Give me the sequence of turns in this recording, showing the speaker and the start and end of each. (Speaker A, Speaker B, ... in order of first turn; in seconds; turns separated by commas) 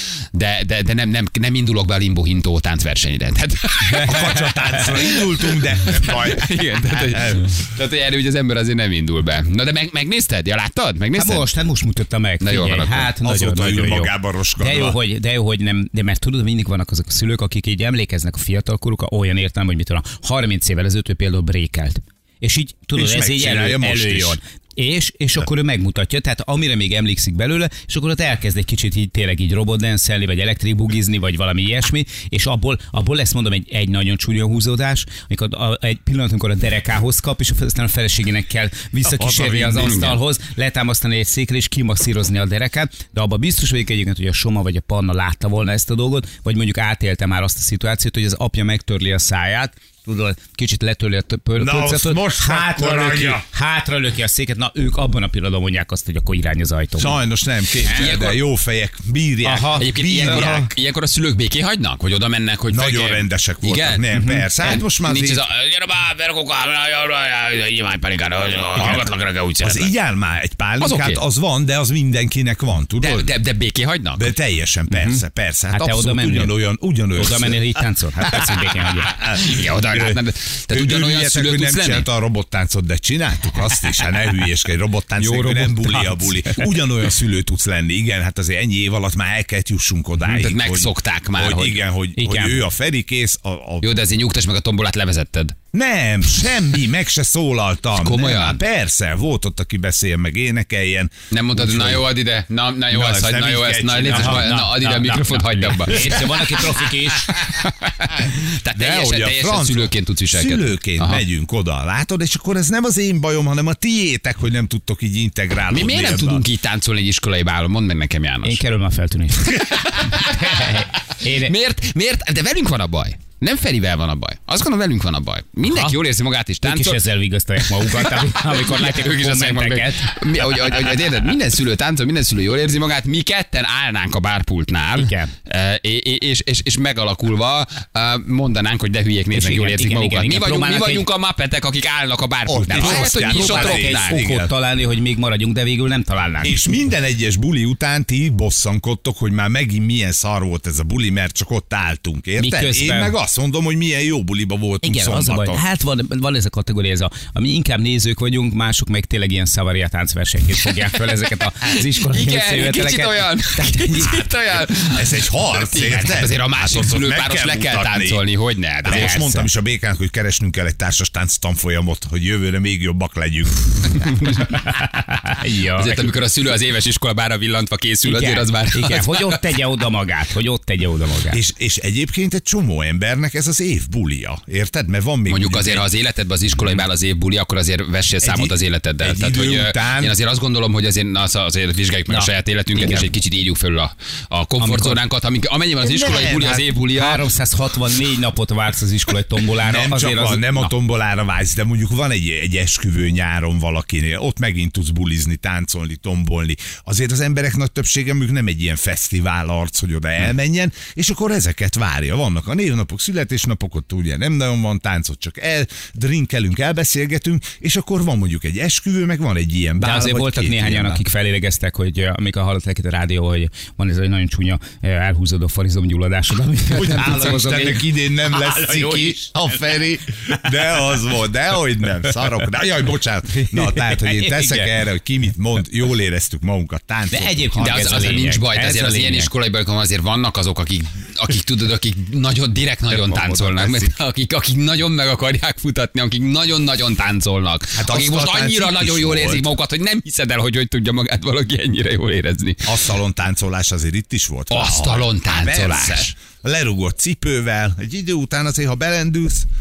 Speaker A: 0.3-11.5, Speaker B: 4.0-7.5, Speaker C: 11.2-57.2, Speaker A: 12.4-13.1, Speaker B: 13.2-15.0, Speaker B: 22.9-24.4, Speaker A: 39.1-40.2, Speaker B: 51.6-53.5, Speaker B: 57.0-60.7, Speaker A: 57.9-58.4, Speaker C: 59.4-60.6, Speaker A: 59.7-69.9, Speaker B: 62.7-65.5, Speaker C: 64.2-64.5, Speaker B: 69.6-73.3, Speaker A: 70.8-71.2, Speaker A: 73.0-74.4, Speaker B: 74.2-77.7, Speaker C: 74.9-76.6, Speaker C: 77.1-79.2, Speaker A: 79.0-82.1, Speaker B: 79.2-80.2, Speaker B: 80.7-94.0, Speaker C: 85.2-86.8, Speaker A: 90.2-91.8, Speaker C: 92.2-92.6, Speaker A: 93.8-95.6, Speaker B: 95.7-102.1, Speaker A: 98.0-98.6, Speaker A: 101.3-111.2, Speaker B: 102.9-104.5, Speaker C: 104.1-107.4, Speaker B: 106.0-106.2, Speaker B: 108.7-116.5, Speaker A: 115.7-118.6, Speaker C: 118.4-121.5, Speaker A: 119.5-127.0, Speaker C: 125.6-126.0, Speaker C: 126.6-130.1, Speaker A: 127.6-144.2, Speaker C: 135.0-135.3, Speaker C: 139.3-141.1, Speaker B: 142.5-144.5, Speaker C: 142.7-146.6, Speaker B: 146.4-155.7, Speaker C: 152.4-153.2, Speaker C: 154.8-164.3, Speaker A: 161.6-169.2, Speaker B: 164.9-168.2, Speaker B: 168.8-174.1, Speaker C: 168.9-169.5, Speaker C: 174.3-176.1, Speaker A: 175.7-179.4, Speaker C: 178.0-181.4, Speaker B: 181.3-185.9, Speaker A: 185.3-197.3, Speaker B: 188.2-190.2, Speaker C: 192.1-193.0, Speaker C: 194.6-195.0, Speaker B: 195.8-196.8, Speaker C: 196.9-200.7, Speaker B: 199.6-221.0, Speaker C: 219.8-229.7, Speaker B: 226.7-238.2, Speaker C: 233.5-234.7, Speaker C: 237.1-239.3, Speaker A: 237.6-252.8, Speaker B: 242.9-243.9, Speaker B: 247.8-249.5, Speaker B: 252.7-259.5, Speaker A: 254.5-256.1